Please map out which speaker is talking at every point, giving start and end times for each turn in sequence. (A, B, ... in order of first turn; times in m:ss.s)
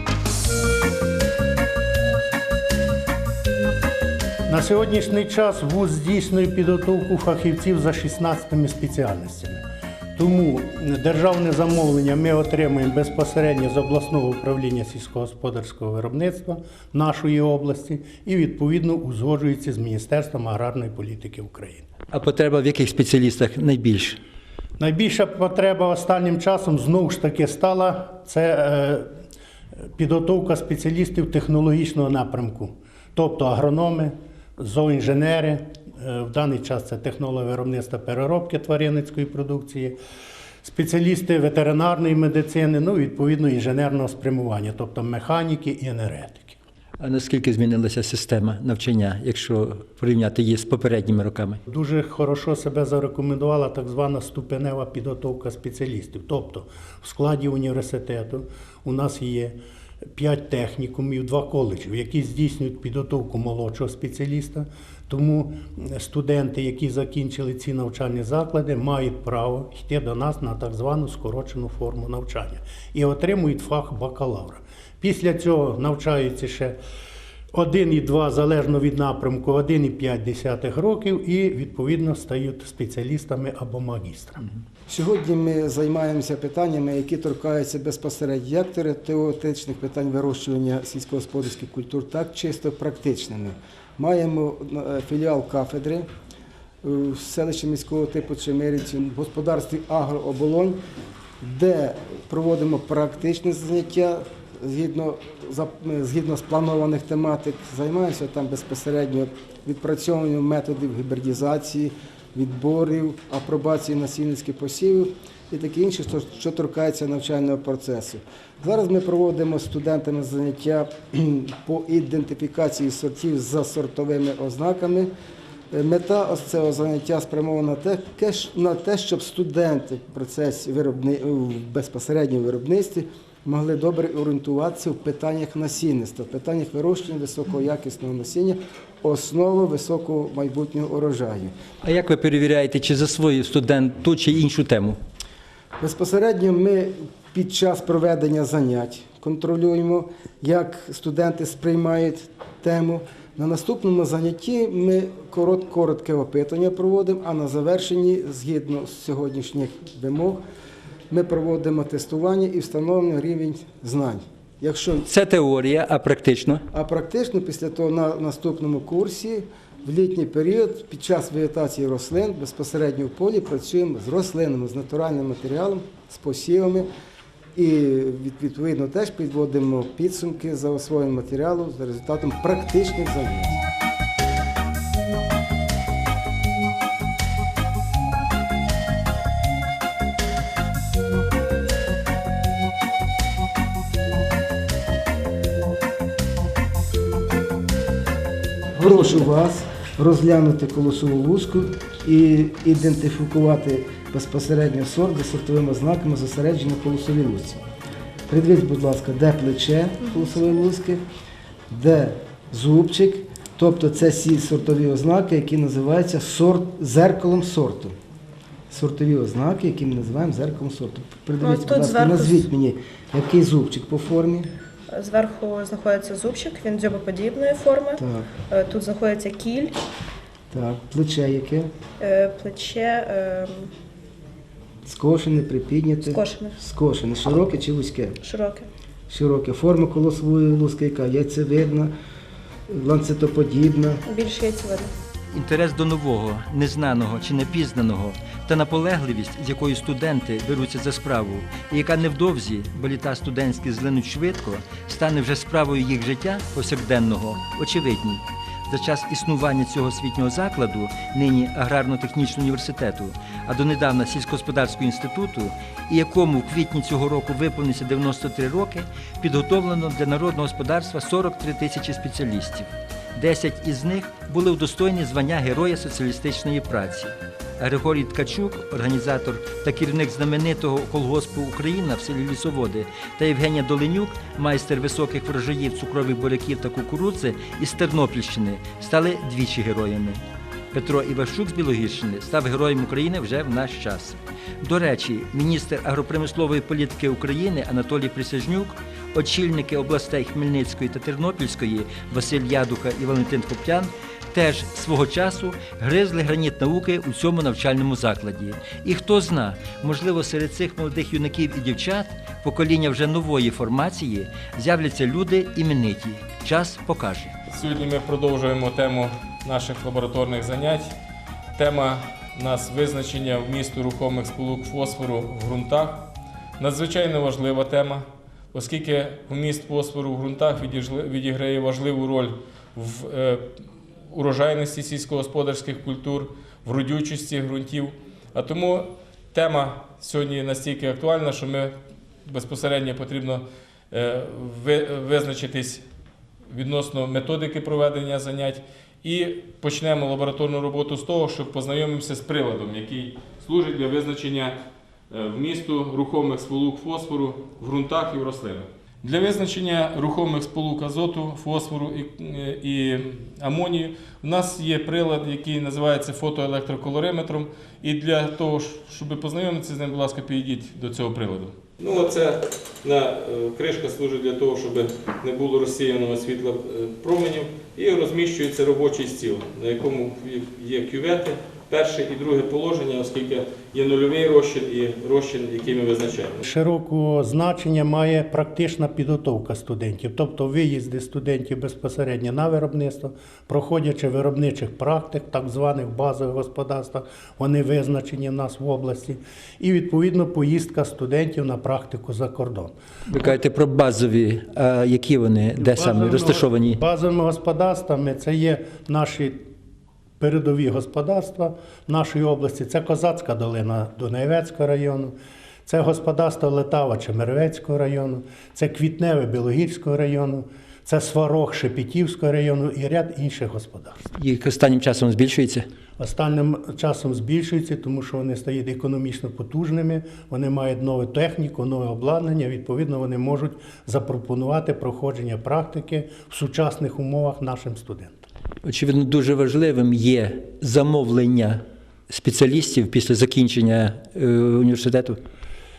0:04.5-0:09.6 A
0:10.1-0:21.9 A
0:22.1-0:24.2 B
0:24.8-0:29.1 A
0:30.0-0:40.0 A
0:40.6-0:46.6 A
0:47.0-0:51.6 B
0:51.7-0:59.6 A
1:00.2-1:16.8 A
1:17.5-1:24.5 A
1:24.9-1:36.0 C
1:36.8-1:40.8 C
1:41.4-2:05.1 C
2:05.7-2:21.5 C
2:21.8-2:25.0 B
2:25.8-2:40.4 C
2:41.1-2:45.1 C
2:45.0-2:46.6 B
2:46.7-2:56.9 C
2:57.6-3:03.6 C
3:18.8-3:27.6 C
3:28.3-3:31.0 C
3:31.7-3:37.9 C
3:38.7-3:44.5 C
3:41.4-3:42.5 D
3:44.9-3:49.8 D
3:48.0-3:48.3 C
3:50.5-3:51.7 C
3:52.0-3:53.7 D
3:54.8-3:58.2 C
3:56.1-3:56.5 D
3:58.2-3:58.6 D
3:59.1-4:01.9 C
4:02.7-4:04.0 C
4:04.1-4:04.9 D
4:05.3-4:50.2 B
4:50.7-5:17.4 B
5:17.5-5:20.9 E
5:21.6-5:33.4 E
5:34.1-5:45.8 E
5:46.5-5:54.6 E
5:55.1-6:26.4 E
6:26.4-6:42.7 A
6:43.1-6:46.8 B
6:45.6-6:49.4 A
6:50.2-6:55.1 A
6:55.6-7:04.1 A
7:04.1-7:05.6 B
7:06.0-7:18.2 A
7:18.6-7:25.2 B